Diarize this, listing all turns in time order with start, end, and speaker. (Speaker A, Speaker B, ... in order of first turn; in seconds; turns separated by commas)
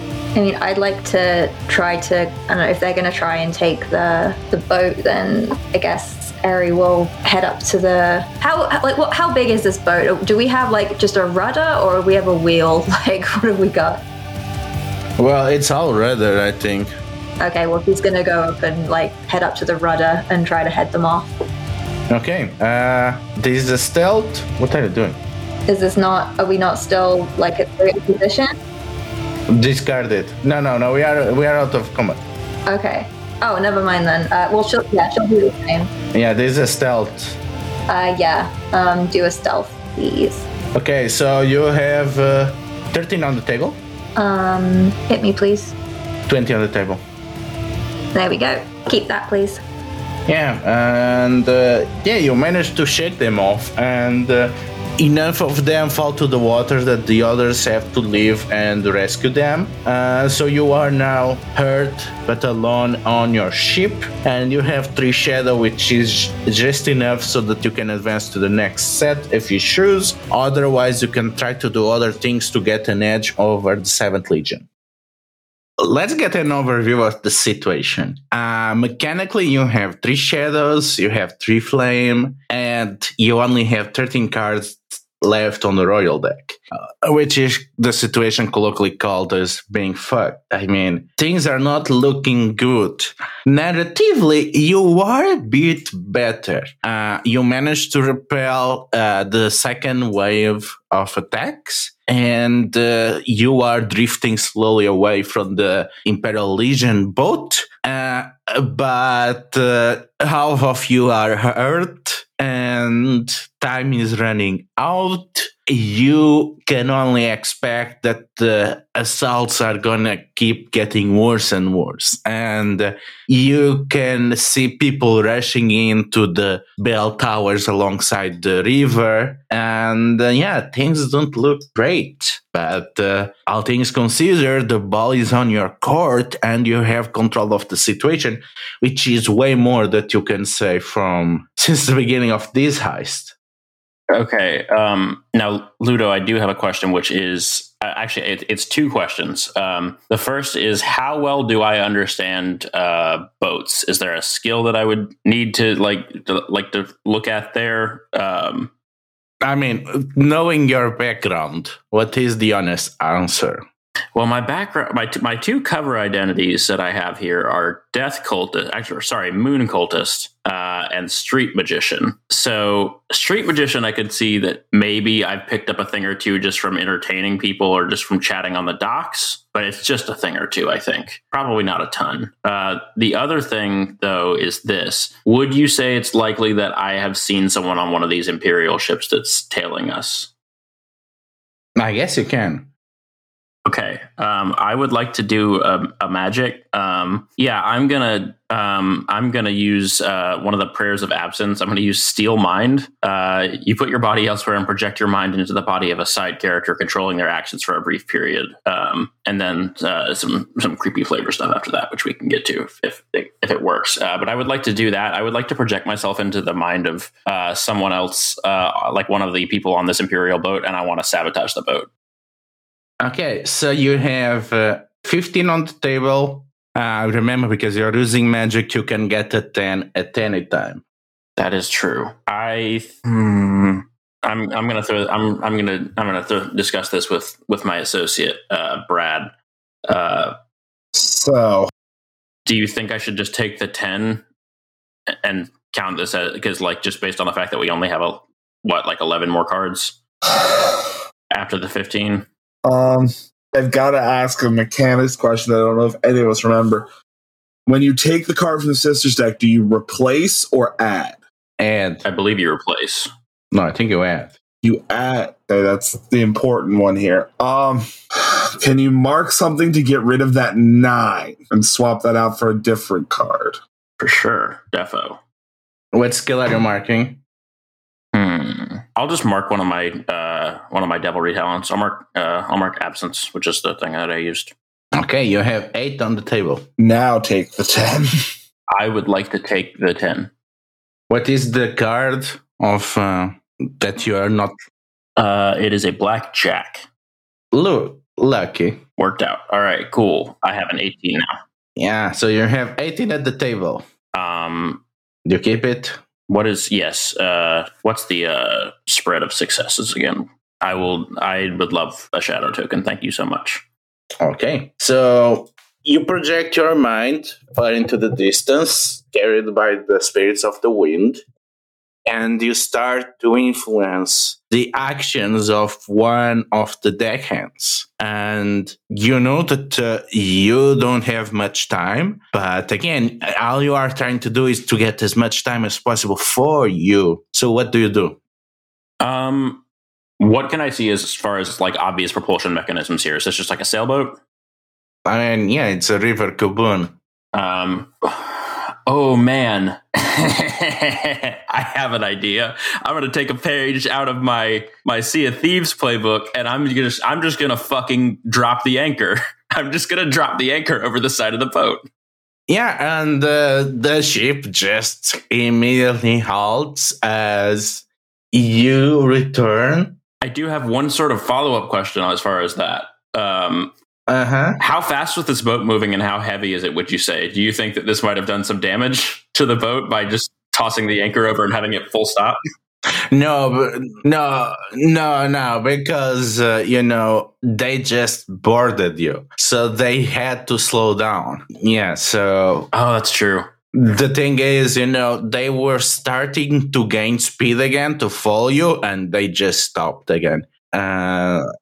Speaker A: 0.3-14.0, Speaker B: 15.2-16.9, Speaker A: 17.4-21.3, Speaker B: 22.1-25.2, Speaker A: 25.7-28.6, Speaker B: 29.5-32.2, Speaker A: 32.7-35.9, Speaker B: 36.1-37.4, Speaker A: 37.9-40.5, Speaker B: 40.8-43.8, Speaker A: 44.2-45.7, Speaker B: 46.3-47.0, Speaker A: 48.1-49.6, Speaker B: 50.3-74.7, Speaker B: 75.8-143.3, Speaker C: 144.1-158.7, Speaker B: 159.4-163.6, Speaker C: 164.2-190.3, Speaker B: 191.8-192.7, Speaker C: 193.7-221.9, Speaker B: 223.0-230.8, Speaker C: 231.4-239.3, Speaker C: 239.9-240.4, Speaker D: 240.9-241.7, Speaker C: 242.5-244.2, Speaker C: 245.1-250.0, Speaker D: 250.3-251.0, Speaker C: 251.3-252.3, Speaker D: 252.7-256.9, Speaker D: 257.7-261.2, Speaker B: 261.6-262.0, Speaker C: 262.0-263.1, Speaker B: 263.5-264.4, Speaker D: 264.6-273.6, Speaker C: 274.0-275.2, Speaker B: 275.9-277.2, Speaker C: 278.1-284.6, Speaker B: 285.0-286.6, Speaker D: 286.8-288.3, Speaker C: 288.7-290.3, Speaker B: 291.1-294.6, Speaker C: 295.2-296.9, Speaker B: 297.5-298.8, Speaker C: 299.0-301.4, Speaker B: 301.8-303.8, Speaker C: 304.1-304.8, Speaker B: 305.3-306.0, Speaker C: 306.3-313.6, Speaker B: 314.2-321.2, Speaker B: 322.1-338.2, Speaker C: 339.0-339.6, Speaker C: 340.2-344.2, Speaker B: 345.1-347.0, Speaker C: 347.3-361.9, Speaker B: 362.5-370.0, Speaker C: 370.2-373.7, Speaker B: 374.1-374.6, Speaker C: 374.6-382.4, Speaker B: 383.1-392.7, Speaker C: 392.7-393.5, Speaker B: 393.7-401.5